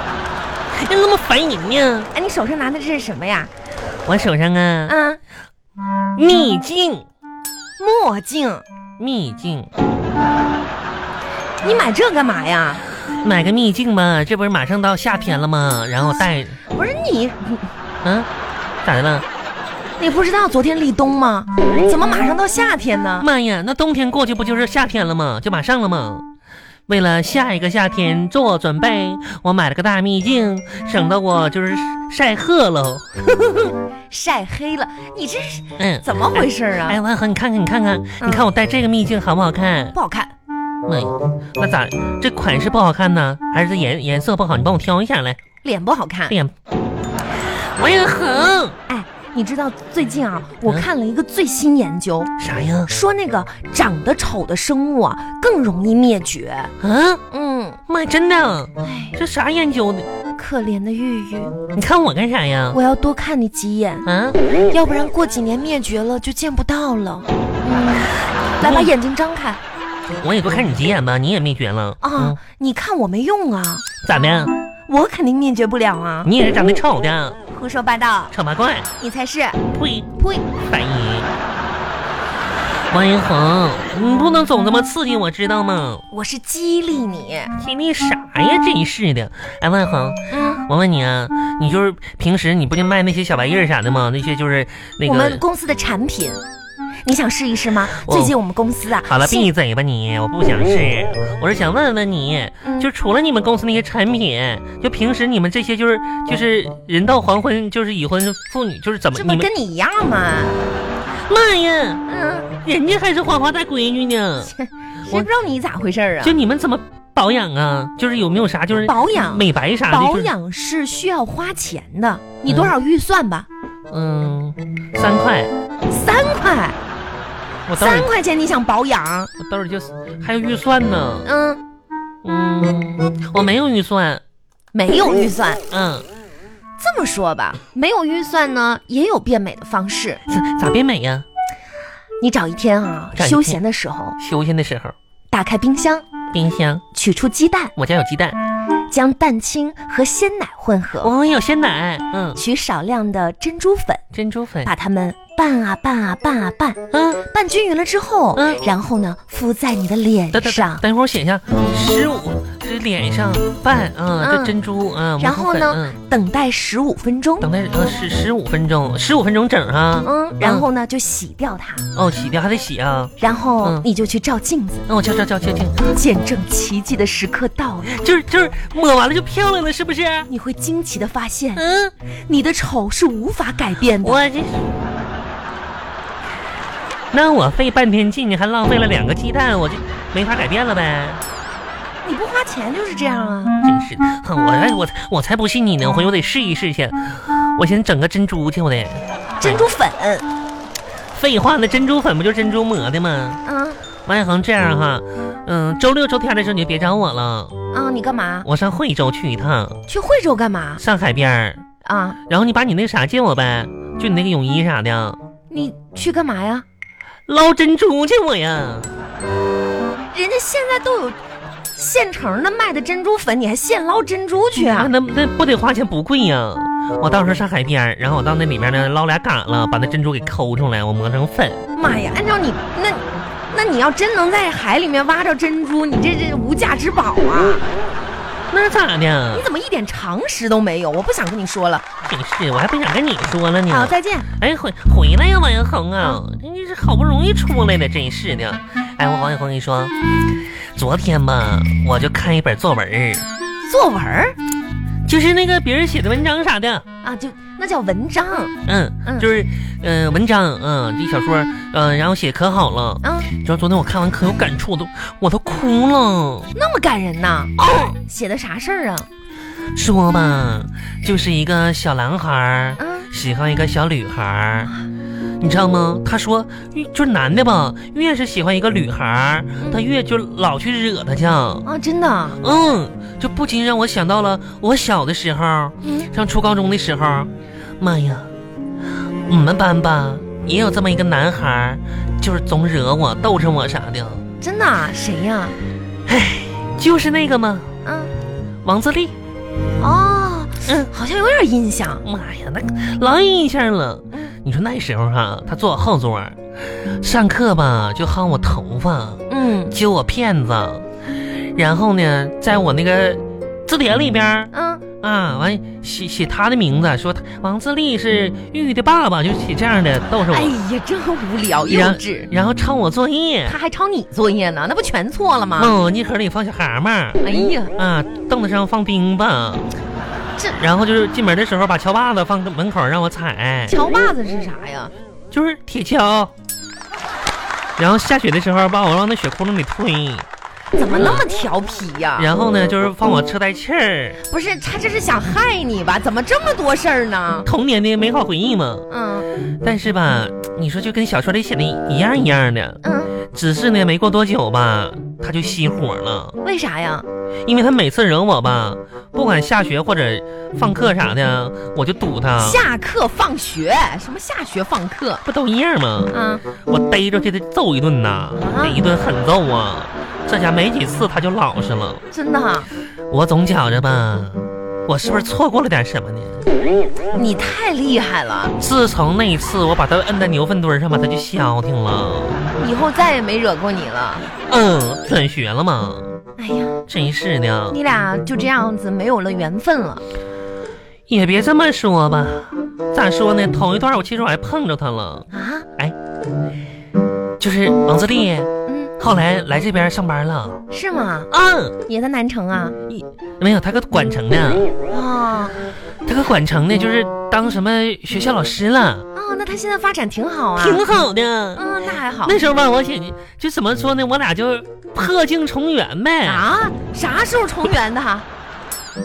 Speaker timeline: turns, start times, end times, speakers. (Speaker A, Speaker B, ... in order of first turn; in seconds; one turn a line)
Speaker A: 0.7-2.1
Speaker B: 2.1-3.5
Speaker A: 4.0-4.9
Speaker B: 4.9-5.2
Speaker A: 6.2-7.0
Speaker B: 7.8-8.6
Speaker A: 9.0-9.7
Speaker B: 11.6-12.8
Speaker A: 13.2-16.6
Speaker B: 16.7-17.7
Speaker A: 18.0-18.3
Speaker A: 18.8-19.2
Speaker B: 20.0-23.3
Speaker A: 23.2-26.2
Speaker A: 26.9-33.7
Speaker B: 34.1-37.0
Speaker A: 35.8-40.0
Speaker B: 38.2-38.5
Speaker B: 39.9-40.3
Speaker A: 40.9-45.4
Speaker B: 45.6-46.3
Speaker A: 47.4-48.8
Speaker B: 48.9-52.3
Speaker A: 52.4-52.9
Speaker B: 52.9-56.7
Speaker A: 56.8-57.2
Speaker B: 57.3-57.8
Speaker A: 57.9-60.1
Speaker B: 58.8-59.2
Speaker B: 60.4-61.6
Speaker A: 61.7-62.8
Speaker B: 62.7-64.1
Speaker A: 64.0-64.4
Speaker B: 64.7-69.6
Speaker A: 68.6-68.9
Speaker A: 70.2-72.4
Speaker B: 72.0-73.8
Speaker A: 74.0-74.5
Speaker B: 74.9-76.3
Speaker A: 76.2-77.4
Speaker B: 77.5-78.3
Speaker A: 78.3-78.9
Speaker B: 79.0-79.6
Speaker A: 79.7-80.1
Speaker B: 80.2-80.4
Speaker A: 80.7-81.3
Speaker A: 82.9-86.0
Speaker B: 86.1-87.5
Speaker A: 87.6-95.4
Speaker B: 90.3-90.6
Speaker B: 95.0-96.4
Speaker B: 97.0-99.5
Speaker A: 97.8-98.3
Speaker A: 99.0-109.5
Speaker B: 102.6-102.9
Speaker B: 109.1-110.6
Speaker A: 111.3-112.0
Speaker B: 112.1-112.5
Speaker A: 112.6-114.5
Speaker B: 114.5-116.4
Speaker A: 116.2-120.3
Speaker B: 118.8-123.5
Speaker A: 122.5-122.7
Speaker A: 123.9-125.5
Speaker B: 125.9-126.8
Speaker A: 127.7-128.1
Speaker B: 127.8-129.3
Speaker A: 129.4-131.3
Speaker B: 131.2-131.6
Speaker A: 132.2-134.2
Speaker B: 134.7-135.6
Speaker A: 135.7-136.1
Speaker B: 136.8-140.2
Speaker A: 140.3-141.2
Speaker B: 142.2-144.2
Speaker A: 143.1-143.6
Speaker A: 144.2-144.9
Speaker B: 145.3-146.1
Speaker A: 146.3-146.8
Speaker B: 146.9-147.7
Speaker A: 147.8-148.4
Speaker B: 148.9-151.1
Speaker A: 151.0-152.4
Speaker B: 152.3-154.0
Speaker A: 154.1-154.7
Speaker B: 154.6-160.8
Speaker A: 156.9-157.2
Speaker A: 158.3-158.6
Speaker A: 160.3-165.9
Speaker B: 164.2-164.6
Speaker B: 165.2-167.5
Speaker A: 167.4-170.7
Speaker B: 170.0-171.8
Speaker A: 171.9-173.8
Speaker B: 173.2-174.8
Speaker A: 174.9-175.8
Speaker B: 175.8-178.0
Speaker A: 177.8-180.3
Speaker B: 180.3-181.6
Speaker A: 181.6-181.9
Speaker B: 182.2-184.2
Speaker A: 184.0-184.7
Speaker A: 187.1-191.2
Speaker B: 192.0-193.6
Speaker A: 193.6-199.6
Speaker B: 199.4-200.2
Speaker A: 201.1-203.4
Speaker B: 203.4-203.8
Speaker A: 204.0-207.5
Speaker B: 207.7-208.5
Speaker A: 208.4-209.8
Speaker B: 209.9-210.8
Speaker A: 210.8-211.6
Speaker B: 211.8-212.2
Speaker A: 212.3-215.2
Speaker B: 215.5-216.6
Speaker A: 217.3-218.9
Speaker B: 220.1-221.2
Speaker B: 221.7-224.9
Speaker A: 224.5-231.6
Speaker B: 231.7-237.6
Speaker A: 238.5-239.4
Speaker B: 239.3-241.8
Speaker A: 242.0-249.9
Speaker B: 243.7-244.3
Speaker A: 250.7-253.2
Speaker B: 253.6-254.4
Speaker A: 255.1-256.8
Speaker B: 257.0-259.3
Speaker A: 258.6-266.5
Speaker B: 263.0-263.3
Speaker B: 266.5-269.1
Speaker A: 269.7-274.7
Speaker B: 272.8-273.1
Speaker A: 275.4-281.6
Speaker B: 281.6-282.4
Speaker A: 282.4-288.3
Speaker B: 285.8-286.1
Speaker A: 289.3-294.2
Speaker B: 294.4-295.6
Speaker A: 296.1-297.7
Speaker B: 297.8-298.1
Speaker A: 298.6-299.1
Speaker B: 299.8-302.0
Speaker A: 300.6-300.9
Speaker A: 302.0-320.6
Speaker B: 309.3-309.8
Speaker B: 314.5-314.8
Speaker B: 320.3-322.3
Speaker A: 321.6-323.6
Speaker B: 323.4-325.8
Speaker A: 325.6-327.2
Speaker B: 327.2-327.7
Speaker A: 327.8-329.6
Speaker A: 330.5-333.8
Speaker B: 333.7-334.9
Speaker A: 335.3-336.3
Speaker A: 337.8-340.2
Speaker B: 340.7-342.3
Speaker A: 340.9-341.2
Speaker A: 342.2-344.2
Speaker B: 344.2-347.5
Speaker A: 347.4-348.9
Speaker B: 348.9-349.3
Speaker A: 349.6-352.8
Speaker B: 352.8-353.1
Speaker A: 353.3-356.4
Speaker B: 356.4-357.1
Speaker A: 357.4-362.6
Speaker B: 362.4-365.2
Speaker A: 365.2-372.0
Speaker B: 366.1-366.4
Speaker B: 368.4-368.8
Speaker B: 372.1-372.7
Speaker A: 373.1-376.4
Speaker B: 377.1-378.5
Speaker A: 378.6-382.4
Speaker B: 382.6-384.3
Speaker A: 384.5-386.1
Speaker B: 386.4-386.8
Speaker A: 386.9-387.8
Speaker B: 387.7-390.0
Speaker A: 391.1-395.9
Speaker B: 395.3-395.7
Speaker A: 397.4-400.6
Speaker B: 398.7-398.9
Speaker B: 400.7-401.3
Speaker A: 401.3-401.8
Speaker B: 401.9-402.8
Speaker A: 402.9-404.7
Speaker B: 404.9-405.6
Speaker A: 406.1-409.0
Speaker B: 409.1-410.8
Speaker A: 410.6-411.7
Speaker B: 411.6-412.4
Speaker A: 412.2-416.5
Speaker B: 416.2-418.2